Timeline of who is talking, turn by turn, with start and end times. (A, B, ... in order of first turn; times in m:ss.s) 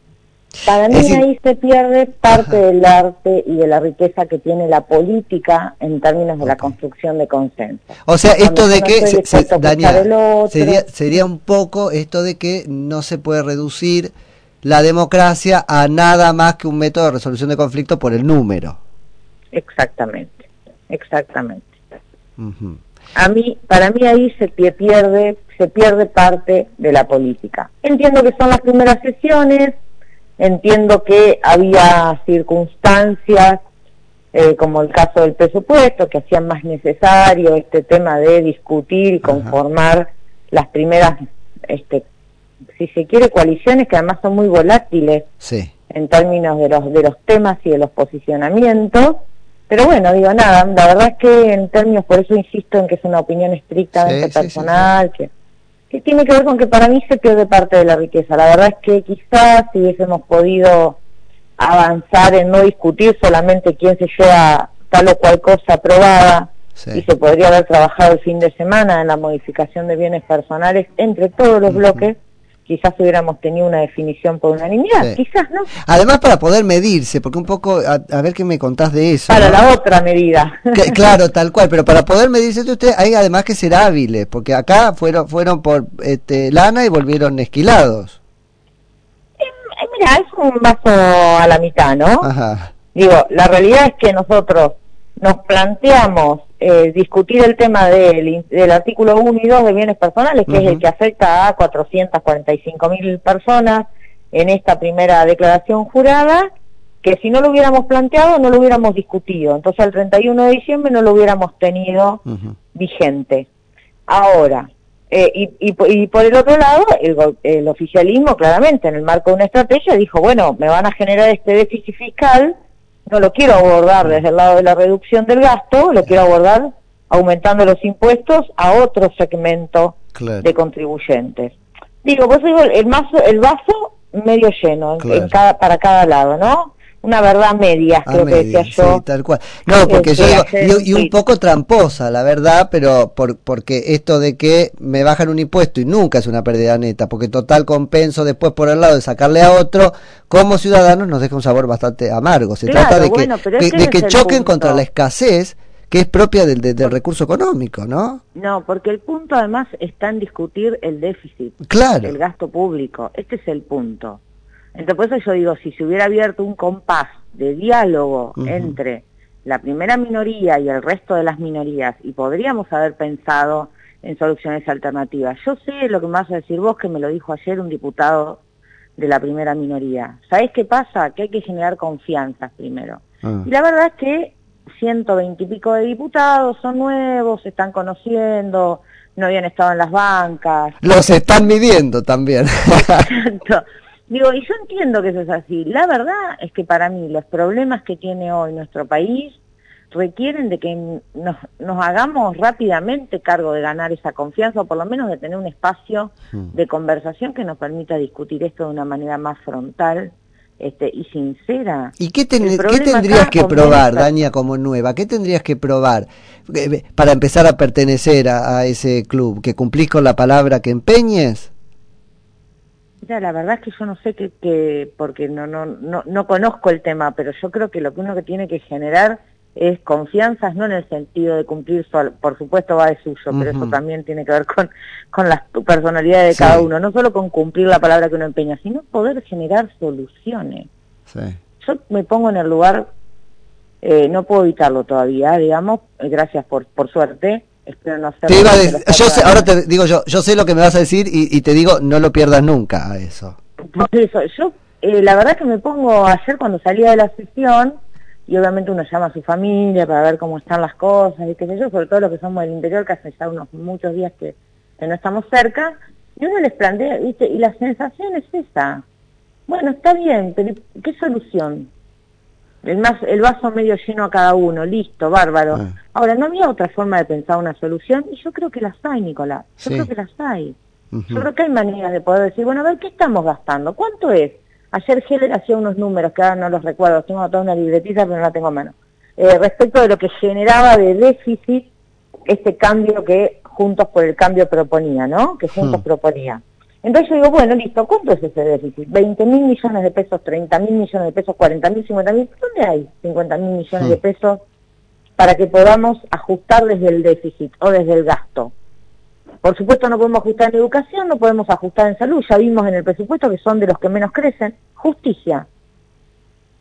0:00.6-0:10.8 A
0:00.9-0:01.2 B
0:06.4-0:06.7 B
0:08.0-0:14.1 B
0:14.6-0:18.8 B
0:19.5-0:21.8 A
0:22.4-0:22.8 B
0:23.1-0:29.8 A
0:30.4-0:33.6 A
0:34.3-0:42.0 A
0:39.2-0:39.5 B
0:42.8-0:45.3 A
0:45.4-0:45.7 B
0:45.9-0:55.3 A
0:54.0-0:54.9 B
0:55.9-1:01.0 A
1:01.6-1:15.7 A
1:06.8-1:07.0 B
1:11.7-1:12.0 B
1:15.8-1:19.6 B
1:19.3-1:21.0 A
1:20.7-1:28.2 B
1:29.4-1:32.3 A
1:32.2-1:32.7 B
1:32.9-1:46.5 A
1:40.5-1:40.8 B
1:47.0-1:53.5 A
1:52.3-1:52.6 B
1:54.1-2:02.5 A
2:03.1-2:19.0 A
2:10.1-2:10.5 B
2:15.0-2:15.3 B
2:18.0-2:38.2 B
2:19.9-2:21.1 A
2:32.6-2:34.8 A
2:38.3-2:44.2 A
2:41.6-2:42.1 B
2:44.8-2:58.4 A
2:48.4-2:48.8 B
2:59.0-3:10.8 A
3:10.8-3:13.1 B
3:13.0-3:19.4 A
3:19.9-3:34.1 A
3:32.0-3:41.5 B
3:43.0-4:00.7 A
3:53.3-3:53.8 B
3:56.3-3:56.6 B
4:01.1-4:01.4 B
4:01.6-4:02.9 A
4:03.8-4:09.5 A
4:08.3-4:13.4 B
4:13.7-4:28.8 A
4:29.5-4:31.7 A
4:32.6-4:40.6 A
4:39.6-4:39.9 B
4:40.9-4:41.2 B
4:41.1-4:51.7 A
4:52.2-5:04.4 A
5:05.2-5:08.5 A
5:09.4-5:15.4 A